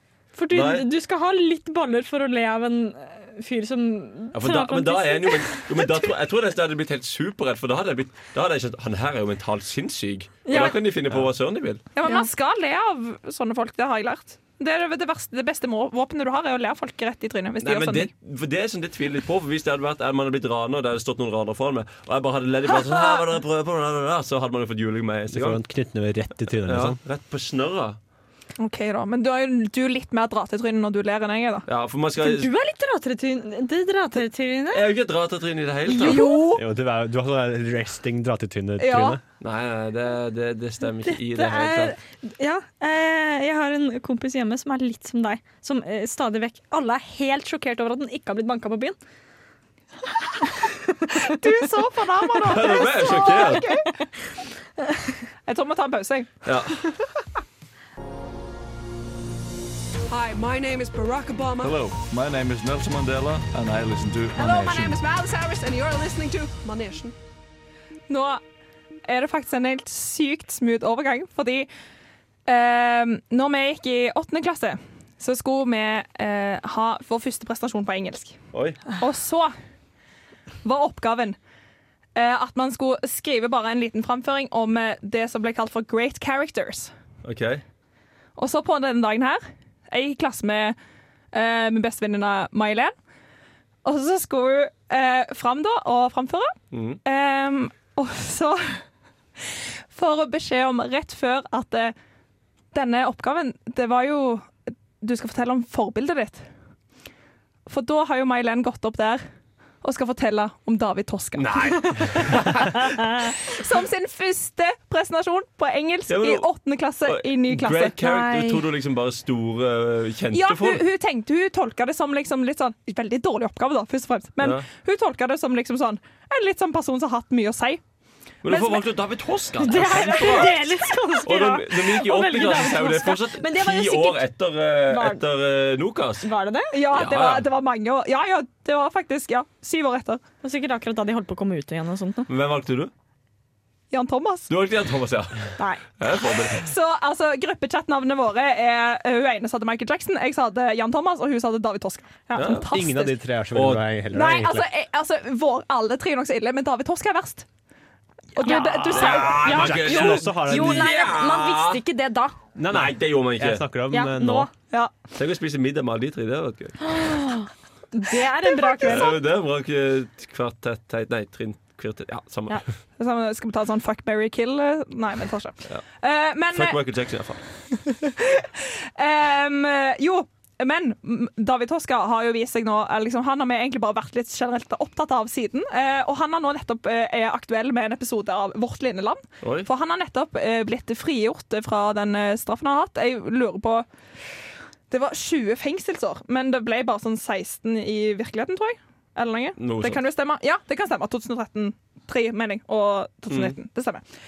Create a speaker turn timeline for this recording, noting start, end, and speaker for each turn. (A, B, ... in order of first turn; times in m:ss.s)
0:00.4-0:05.7 A
0:00.5-0:00.8 B
0:04.3-0:11.8 B
0:10.5-0:10.8 A
0:12.0-0:18.1 C
0:17.6-0:25.6 B
0:22.8-0:23.2 C
0:25.3-0:27.0 D
0:26.6-0:28.0 B
0:28.6-0:31.7 C
0:31.7-0:32.5 B
0:32.2-0:34.9 A
0:34.7-0:36.3 B
0:35.9-0:36.4 A
0:35.9-0:36.6 C
0:36.5-0:39.2 D
0:38.8-0:39.2 C
0:39.4-0:42.0 B
0:41.1-0:49.0 A
0:50.4-0:51.3 A
0:51.2-0:53.9 C
0:52.4-0:53.7 B
0:53.2-0:54.1 A
0:54.8-0:55.1 A
0:55.5-0:56.5 C
0:56.4-0:56.8 B
1:00.1-1:01.8 E
1:01.6-1:05.0 F
1:04.4-1:07.2 E
1:08.1-1:08.4 C
1:09.1-1:11.7 C
1:12.5-1:18.4 C
1:18.5-1:18.8 B
1:19.0-1:19.5 C
1:20.6-1:21.4 C
1:22.2-1:26.9 C
1:27.2-1:27.6 B
1:28.4-1:30.8 C
1:31.3-1:32.9 C
1:33.8-1:38.8 C
1:36.7-1:37.0 B
1:39.4-1:41.9 C
1:42.7-1:46.5 C
1:47.7-1:49.2 C
1:49.8-1:58.1 C
1:51.4-1:52.8 B
1:56.1-1:56.5 B
1:57.0-2:00.8 B
1:58.1-1:58.6 A
2:00.3-2:07.8 C
2:04.4-2:04.7 B
2:08.4-2:10.6 B
2:08.5-2:08.8 C
2:09.6-2:14.2 A
2:11.2-2:16.2 B
2:14.9-2:15.2 A
2:16.2-2:16.8 A
2:16.7-2:20.2 C
2:16.9-2:17.5 B
2:20.4-2:22.3 A
2:22.3-2:22.9 B
2:23.9-2:24.5 C
2:24.5-2:26.7 B
2:25.6-2:26.0 A
2:26.6-2:33.2 C
2:32.3-2:32.6 A
2:32.4-2:32.7 B
2:32.7-2:34.7 D
2:33.5-2:33.8 B
2:34.1-2:37.5 C
2:38.4-2:39.7 C
2:38.4-2:42.4 A
2:38.5-2:40.9 D
2:38.9-2:41.8 B
2:42.6-2:44.5 D
2:42.7-2:43.6 B
2:43.9-2:44.5 A
2:45.2-2:46.8 B
2:46.8-2:49.2 A
2:48.4-2:49.1 C
2:48.8-2:52.6 B
2:53.0-2:56.8 C
2:56.5-2:57.4 B
2:57.9-3:13.9 C
3:09.4-3:09.7 B
3:14.9-3:24.0 C
3:19.6-3:20.0 B
3:23.3-3:23.5 B